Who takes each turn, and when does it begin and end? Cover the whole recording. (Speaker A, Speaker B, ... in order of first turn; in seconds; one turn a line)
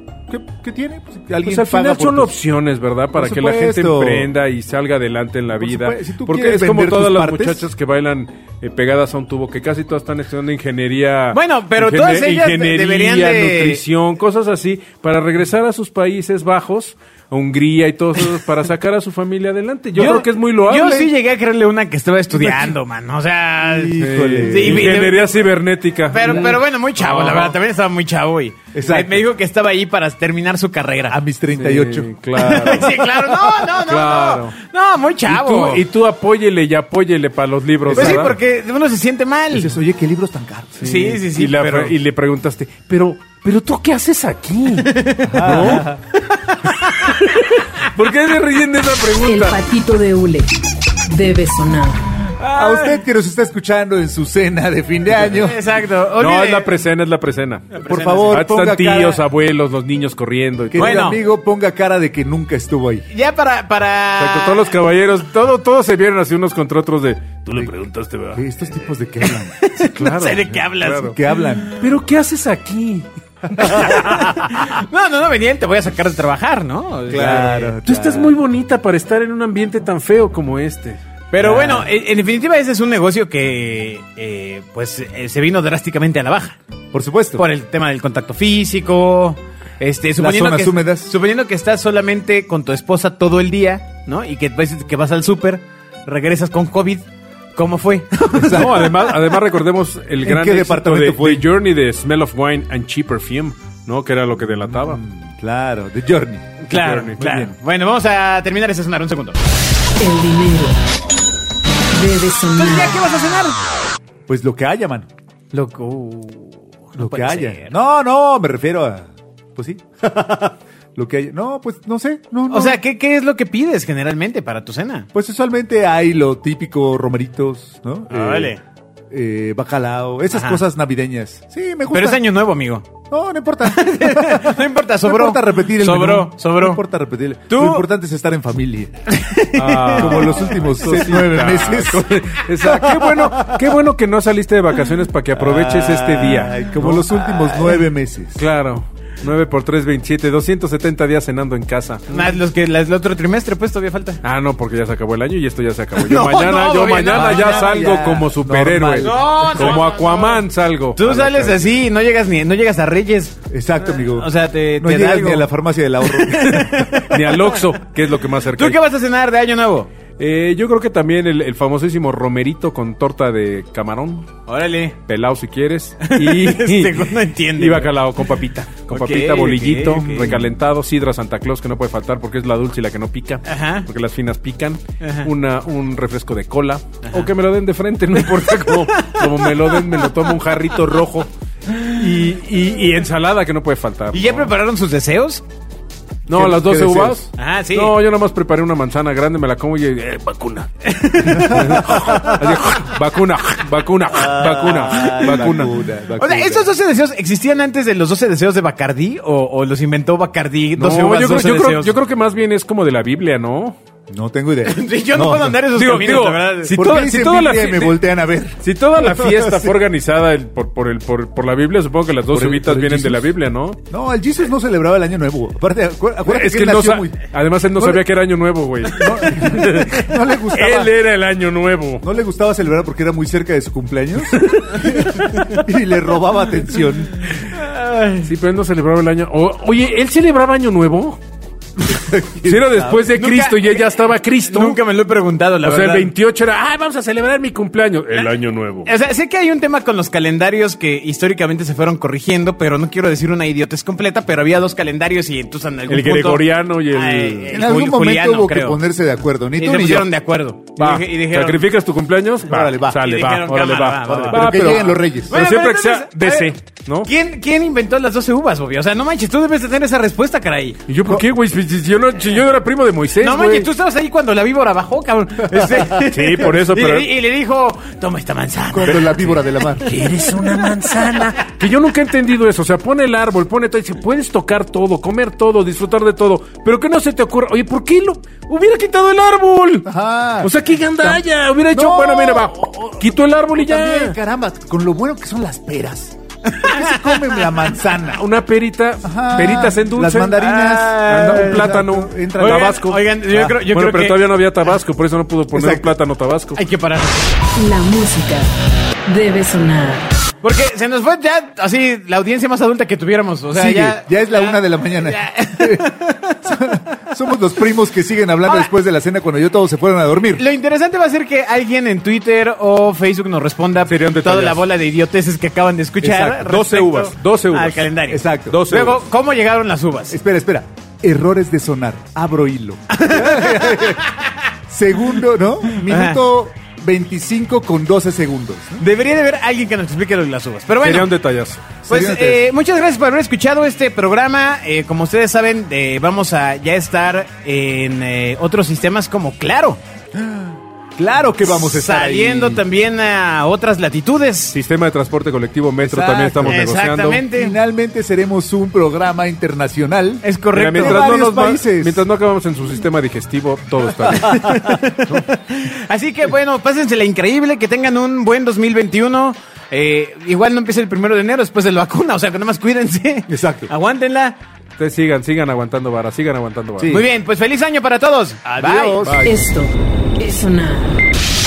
Speaker A: 0.3-2.3
Speaker B: 1.4-21.1
Speaker A: 3.1-4.3
Speaker A: 5.6-7.7
Speaker C: 11.3-13.8
Speaker C: 19.9-25.3
Speaker A: 22.3-22.8
Speaker A: 23.6-25.1
Speaker B: 24.0-27.6
Speaker C: 26.1-31.2
Speaker A: 28.7-29.3
Speaker A: 31.1-32.9
Speaker B: 31.6-34.6
Speaker C: 32.4-35.8
Speaker B: 35.3-38.4
Speaker A: 37.9-38.4
Speaker C: 37.9-39.8
Speaker A: 39.5-41.0
Speaker B: 40.8-45.9
Speaker C: 40.8-42.0
Speaker C: 44.8-45.8
Speaker A: 45.2-46.0
Speaker B: 47.0-49.6
Speaker D: 49.2-52.0
Speaker C: 52.4-53.0
Speaker A: 52.5-55.6
Speaker C: 55.2-56.7
Speaker B: 56.2-61.1
Speaker C: 57.7-58.4
Speaker A: 57.9-59.2
Speaker A: 60.7-63.1
Speaker C: 60.8-61.2
Speaker C: 63.1-64.7
Speaker B: 64.2-68.4
Speaker A: 68.3-69.6
Speaker C: 69.6-71.2
Speaker B: 69.8-71.2
Speaker A: 71.0-71.8
Speaker B: 71.7-73.1
Speaker A: 73.5-74.6
Speaker B: 73.6-74.3
Speaker C: 73.6-77.8
Speaker A: 77.1-78.4
Speaker B: 77.8-81.0
Speaker C: 81.3-86.6
Speaker A: 81.4-81.9
Speaker A: 86.9-87.4
Speaker C: 87.4-99.2
Speaker A: 90.2-91.1
Speaker A: 98.3-98.9
Speaker B: 98.3-105.0
Speaker A: 100.2-101.5
Speaker A: 104.6-106.6
Speaker C: 106.6-109.4
Speaker B: 106.7-107.2
Speaker A: 107.2-107.6
Speaker D: 110.0-110.8
Speaker D: 111.9-113.0
Speaker C: 112.6-113.7
Speaker A: 114.3-115.1
Speaker C: 115.5-117.7
Speaker A: 117.0-122.8
Speaker C: 122.5-125.1
Speaker A: 125.1-128.6
Speaker C: 128.1-128.6
Speaker A: 129.1-132.2
Speaker C: 130.3-130.6
Speaker C: 131.9-132.9
Speaker A: 133.1-138.9
Speaker C: 133.7-136.8
Speaker C: 137.5-137.9
Speaker C: 139.1-140.4
Speaker B: 139.6-147.1
Speaker A: 139.9-143.6
Speaker A: 145.4-148.4
Speaker C: 147.3-147.8
Speaker B: 148.4-152.3
Speaker C: 152.1-154.2
Speaker B: 154.2-161.8
Speaker C: 156.0-158.3
Speaker A: 157.1-159.9
Speaker C: 159.0-160.4
Speaker C: 161.0-163.4
Speaker A: 163.5-166.9
Speaker C: 163.9-165.5
Speaker C: 166.0-167.6
Speaker B: 166.9-168.8
Speaker C: 168.6-169.9
Speaker B: 170.2-174.4
Speaker C: 174.5-175.0
Speaker B: 175.1-194.5
Speaker C: 176.0-177.9
Speaker C: 178.9-180.4
Speaker C: 183.5-183.9
Speaker C: 185.0-185.3
Speaker C: 187.1-187.3
Speaker C: 188.3-190.3
Speaker C: 194.1-195.4
Speaker B: 196.3-205.7
Speaker A: 196.3-197.2
Speaker C: 197.4-198.0
Speaker C: 200.8-202.3
Speaker A: 201.6-202.4
Speaker A: 204.1-206.7
Speaker C: 206.2-211.9
Speaker B: 210.8-213.8
Speaker A: 214.1-215.6
Speaker C: 214.6-216.8
Speaker B: 215.7-218.0
Speaker A: 216.7-219.8
Speaker B: 218.6-223.8
Speaker A: 222.3-223.3
Speaker A: 223.9-228.0
Speaker B: 226.3-232.1
Speaker A: 228.8-230.9
Speaker A: 232.0-237.2
Speaker B: 234.3-234.9
Speaker C: 235.2-235.6
Speaker C: 237.5-238.3
Speaker B: 238.2-241.2
Speaker A: 241.8-243.0
Speaker B: 242.4-244.8
Speaker C: 243.1-243.8
Speaker C: 244.4-246.1
Speaker B: 245.6-248.9
Speaker C: 248.9-258.8
Speaker B: 255.9-257.6
Speaker A: 257.5-260.1
Speaker C: 259.6-261.6
Speaker B: 260.8-267.1
Speaker A: 262.4-263.2
Speaker C: 263.0-266.5
Speaker A: 264.1-265.4
Speaker C: 267.1-270.8
Speaker B: 270.9-273.7
Speaker C: 273.2-281.3
Speaker B: 276.0-277.1
Speaker A: 278.7-280.0
Speaker B: 279.8-289.9
Speaker A: 289.9-292.7
Speaker B: 290.4-294.2
Speaker A: 293.6-298.2
Speaker C: 296.5-297.6
Speaker B: 298.1-306.6
Speaker A: 299.0-302.8
Speaker C: 300.4-301.7
Speaker C: 302.4-304.2
Speaker A: 305.5-305.9
Speaker C: 306.6-307.4
Speaker D: 307.6-308.5
Speaker D: 309.1-310.1
Speaker C: 310.4-316.5
Speaker A: 313.5-320.4
Speaker C: 320.4-330.2
Speaker B: 323.8-324.6
Speaker B: 326.0-329.1
Speaker A: 328.1-328.6
Speaker A: 330.1-334.1
Speaker C: 332.9-334.3
Speaker A: 334.7-338.8
Speaker C: 335.9-336.2
Speaker C: 338.8-341.1
Speaker B: 340.8-341.7
Speaker A: 341.9-342.5
Speaker C: 341.9-349.8
Speaker A: 350.1-352.6
Speaker C: 351.4-354.6
Speaker B: 354.5-357.2
Speaker A: 355.8-356.6
Speaker C: 356.4-357.6
Speaker A: 357.3-362.0
Speaker C: 360.2-361.1
Speaker B: 360.5-365.2
Speaker A: 364.0-364.8
Speaker C: 364.3-374.4
Speaker A: 373.3-373.7
Speaker B: 374.8-377.0
Speaker A: 376.8-377.1
Speaker C: 376.9-379.0
Speaker A: 378.5-379.3
Speaker B: 379.0-379.4
Speaker D: 379.2-381.0